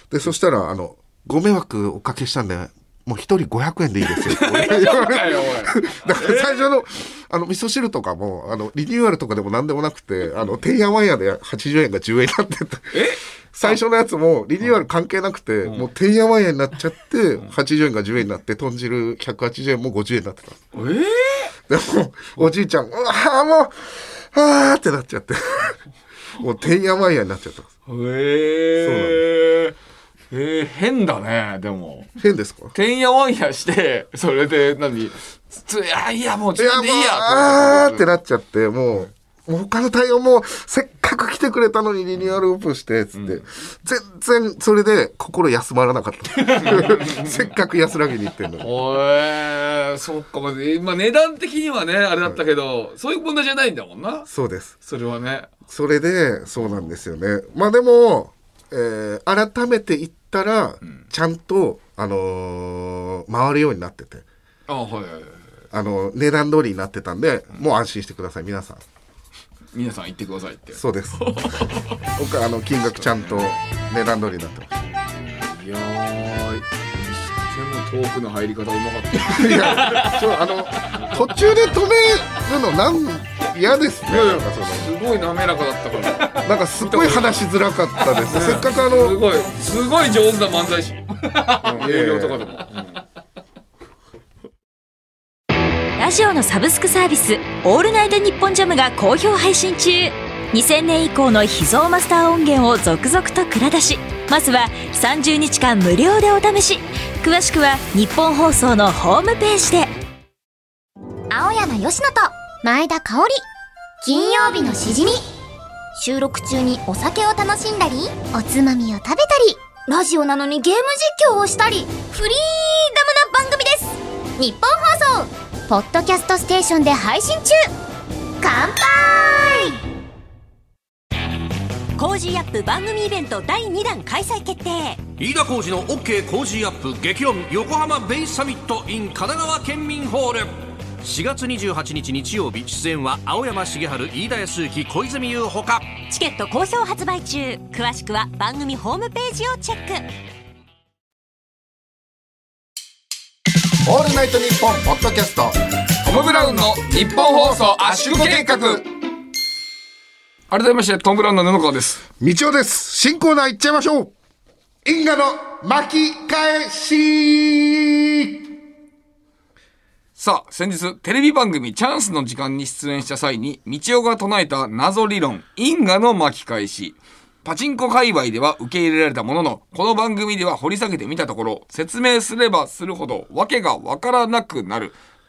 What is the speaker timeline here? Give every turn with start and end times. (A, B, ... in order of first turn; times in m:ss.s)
0:00.1-0:20.6 A
0:04.1-0:06.7 B
0:12.9-0:13.8 B
0:20.7-0:21.5 B
0:21.7-0:25.8 A
0:26.4-0:27.7 A
0:27.9-0:29.8 B
0:28.8-0:29.2 A
0:30.3-0:32.1 B
0:32.2-0:32.7 A
0:32.7-0:38.1 B
0:36.5-0:48.7 A
0:43.1-0:43.4 B
0:46.4-0:47.5 B
0:48.6-0:54.3 B
0:54.3-0:54.8 A
0:54.8-0:55.5 B
0:55.7-1:04.2 A
0:56.6-0:56.9 B
1:04.7-1:05.5 B
1:05.7-1:08.8 A
1:09.7-1:12.0 B
1:10.7-1:15.0 A
1:12.9-1:13.6 B
1:15.2-1:21.1 B
1:19.2-1:24.9 A
1:24.1-1:27.5 B
1:26.3-1:29.2 A
1:28.2-1:33.0 B
1:31.6-1:32.5 A
1:36.0-1:49.9 C
1:51.3-1:53.4 D
1:54.0-1:55.2 D
1:56.0-2:07.7 D
2:08.4-2:09.8 D
2:12.0-2:15.0 C
2:15.2-2:25.9 E
2:26.1-2:30.1 C
2:33.8-2:38.8 A
2:36.0-2:38.8 B
2:40.5-2:42.0 B
2:42.2-2:44.1 A
2:44.8-2:48.4 A
2:50.2-3:05.0 B